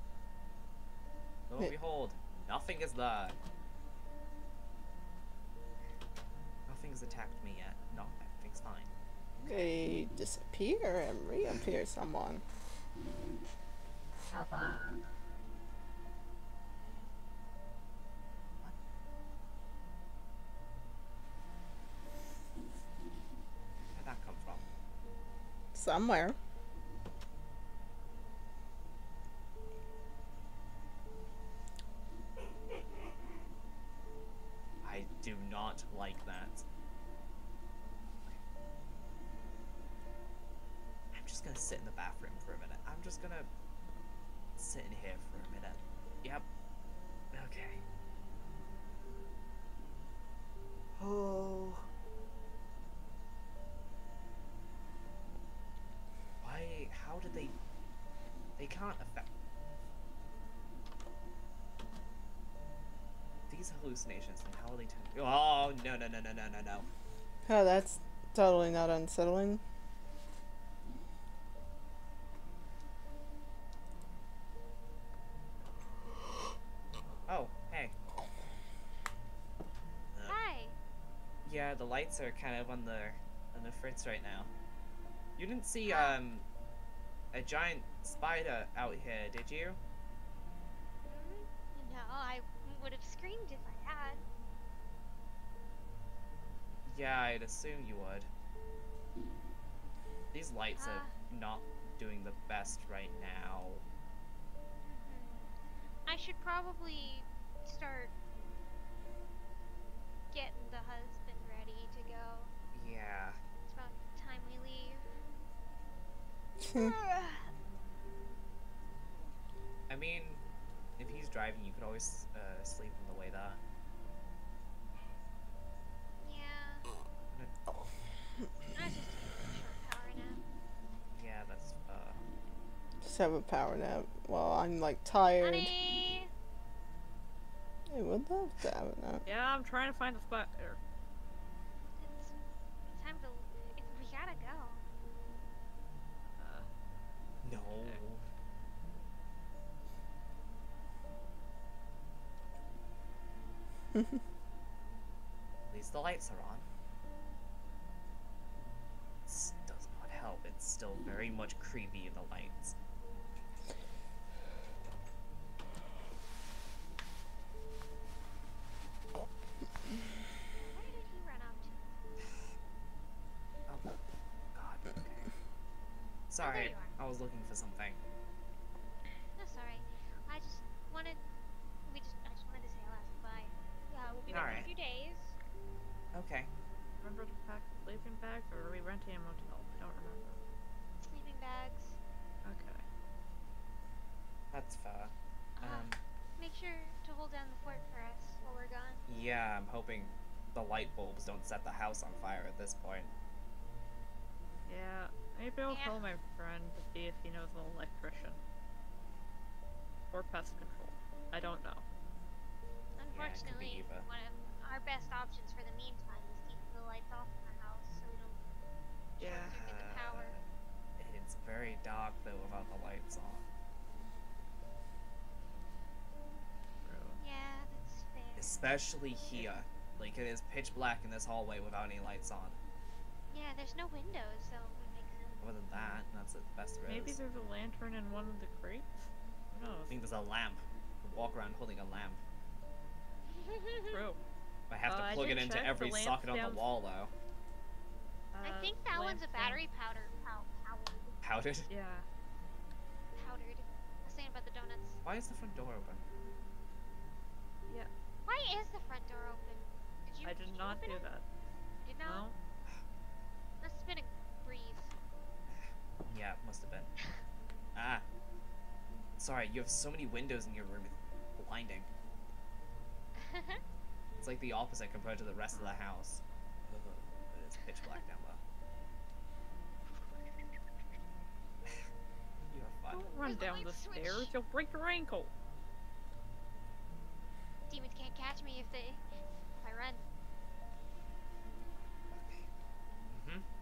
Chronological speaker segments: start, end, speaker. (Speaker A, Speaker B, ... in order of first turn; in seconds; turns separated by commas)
Speaker A: 1.5-3.4, Speaker A: 6.7-9.8, Speaker B: 9.4-12.4, Speaker A: 23.9-24.7, Speaker B: 25.7-26.4, Speaker A: 34.8-36.6, Speaker A: 41.1-43.5, Speaker A: 44.6-46.5, Speaker A: 47.3-47.8, Speaker A: 51.0-51.9, Speaker A: 56.4-57.5, Speaker A: 58.6-59.3, Speaker A: 63.5-66.9, Speaker B: 67.5-69.6, Speaker A: 77.3-77.9, Speaker C: 80.3-80.8, Speaker A: 81.5-84.5, Speaker A: 85.4-86.5, Speaker C: 85.8-86.2, Speaker A: 87.3-89.8, Speaker C: 91.1-94.2, Speaker A: 96.9-98.3, Speaker A: 100.3-103.8, Speaker C: 100.8-101.1, Speaker C: 104.8-108.1, Speaker C: 110.3-112.5, Speaker A: 112.7-113.4, Speaker C: 113.7-115.2, Speaker B: 116.6-116.9, Speaker C: 116.7-117.5, Speaker A: 119.9-120.4, Speaker A: 121.0-123.6, Speaker C: 126.2-126.9, Speaker C: 128.7-130.4, Speaker A: 131.1-132.2, Speaker B: 133.0-135.7, Speaker C: 135.4-136.3, Speaker B: 137.9-139.2, Speaker D: 139.2-140.8, Speaker C: 142.0-142.3, Speaker C: 142.9-144.8, Speaker D: 146.3-146.7, Speaker A: 147.4-148.2, Speaker A: 155.7-156.7, Speaker A: 159.3-162.8, Speaker C: 170.5-171.8, Speaker A: 172.2-172.5, Speaker A: 173.7-174.0, Speaker A: 174.5-175.3, Speaker A: 176.3-178.0, Speaker C: 176.4-176.9, Speaker C: 179.4-181.2, Speaker C: 181.8-185.4, Speaker D: 184.2-184.7, Speaker A: 184.3-184.7, Speaker A: 186.1-186.5, Speaker D: 187.0-190.4, Speaker C: 191.0-192.0, Speaker D: 192.4-192.8, Speaker A: 194.5-196.0, Speaker C: 195.6-199.0, Speaker A: 199.1-203.1, Speaker D: 204.7-208.4, Speaker C: 205.7-206.0, Speaker D: 210.1-211.8, Speaker C: 213.0-218.4, Speaker A: 213.1-214.1, Speaker C: 219.2-220.4, Speaker D: 219.2-219.6, Speaker A: 219.2-220.4, Speaker A: 221.0-223.5, Speaker D: 226.8-227.2, Speaker C: 227.2-228.6, Speaker A: 228.4-232.6, Speaker C: 233.3-235.4, Speaker A: 235.4-237.2, Speaker D: 236.9-240.0, Speaker A: 239.9-242.2, Speaker C: 243.3-244.0, Speaker D: 243.9-244.2, Speaker A: 244.7-247.1, Speaker D: 244.9-246.7, Speaker D: 248.3-249.6, Speaker C: 248.4-251.2, Speaker A: 251.2-251.7, Speaker D: 251.7-252.1, Speaker C: 253.2-255.0, Speaker A: 255.1-256.1, Speaker C: 258.3-261.1, Speaker D: 260.2-261.2, Speaker C: 261.8-262.3, Speaker D: 262.0-262.4, Speaker C: 263.6-264.9, Speaker A: 265.5-266.9, Speaker A: 267.8-268.0, Speaker A: 269.2-271.9, Speaker C: 273.2-273.6, Speaker A: 274.2-278.4, Speaker A: 282.5-283.1, Speaker D: 282.9-285.3, Speaker C: 283.2-284.3, Speaker C: 287.7-290.0, Speaker A: 292.1-292.5, Speaker A: 293.1-293.4